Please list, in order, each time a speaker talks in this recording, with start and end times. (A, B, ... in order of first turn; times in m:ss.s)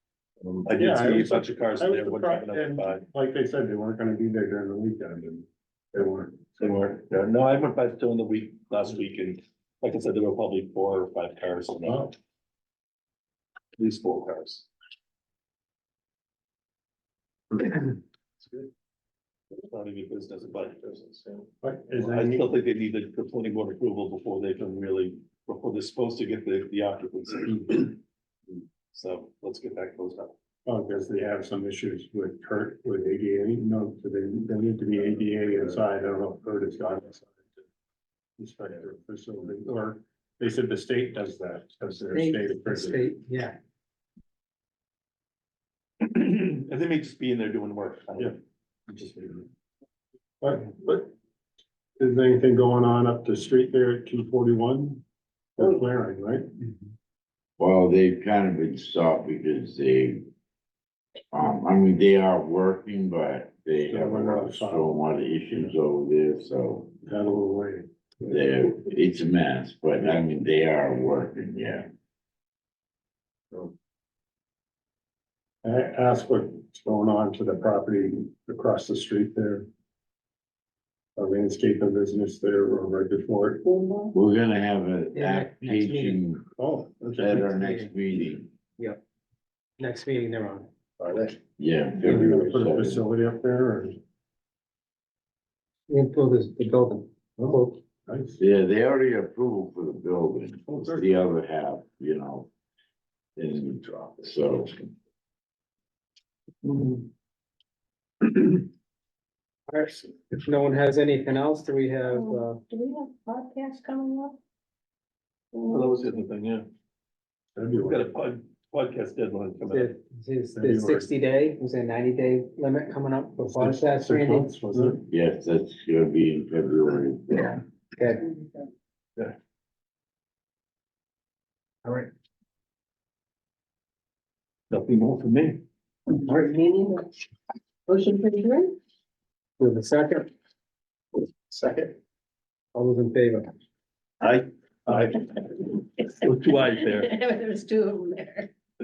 0:00.4-0:03.0 A
0:00.7-0:06.7 B
0:06.6-0:12.2 A
0:13.8-0:14.7 A
0:19.5-0:28.0 A
0:21.6-0:22.5 B
0:28.9-0:30.3 A
0:30.7-0:37.5 B
0:38.4-0:43.1 B
0:42.1-0:43.6 C
0:46.0-0:48.4 A
0:48.9-0:49.4 B
0:50.4-0:51.1 B
0:52.0-0:55.0 B
0:55.6-0:56.5 B
0:57.6-1:00.3 D
1:01.3-1:07.0 D
1:03.8-1:04.9 B
1:07.1-1:08.3 B
1:08.3-1:11.9 D
1:15.6-1:19.7 B
1:21.2-1:23.8 B
1:24.1-1:26.4 D
1:25.1-1:26.2 C
1:26.6-1:27.4 B
1:27.2-1:28.5 D
1:27.3-1:27.9 C
1:29.8-1:30.7 C
1:31.0-1:31.4 B
1:31.6-1:33.0 D
1:32.0-1:34.0 B
1:35.9-1:37.8 C
1:37.4-1:38.4 B
1:38.4-1:42.5 D
1:40.7-1:41.1 B
1:43.4-1:44.9 D
1:49.7-1:52.6 C
1:52.1-1:54.4 E
1:55.5-1:56.2 E
1:55.7-1:56.7 A
1:57.6-1:58.0 B
1:57.7-2:00.0 A
1:59.6-2:04.9 C
2:00.6-2:01.1 B
2:03.4-2:05.0 B
2:05.1-2:07.6 D
2:08.0-2:08.4 C
2:14.7-2:15.6 A
2:16.2-2:17.1 E
2:17.9-2:18.8 E
2:19.6-2:20.3 C
2:22.7-2:23.5 C
2:24.2-2:27.1 A
2:26.6-2:28.5 E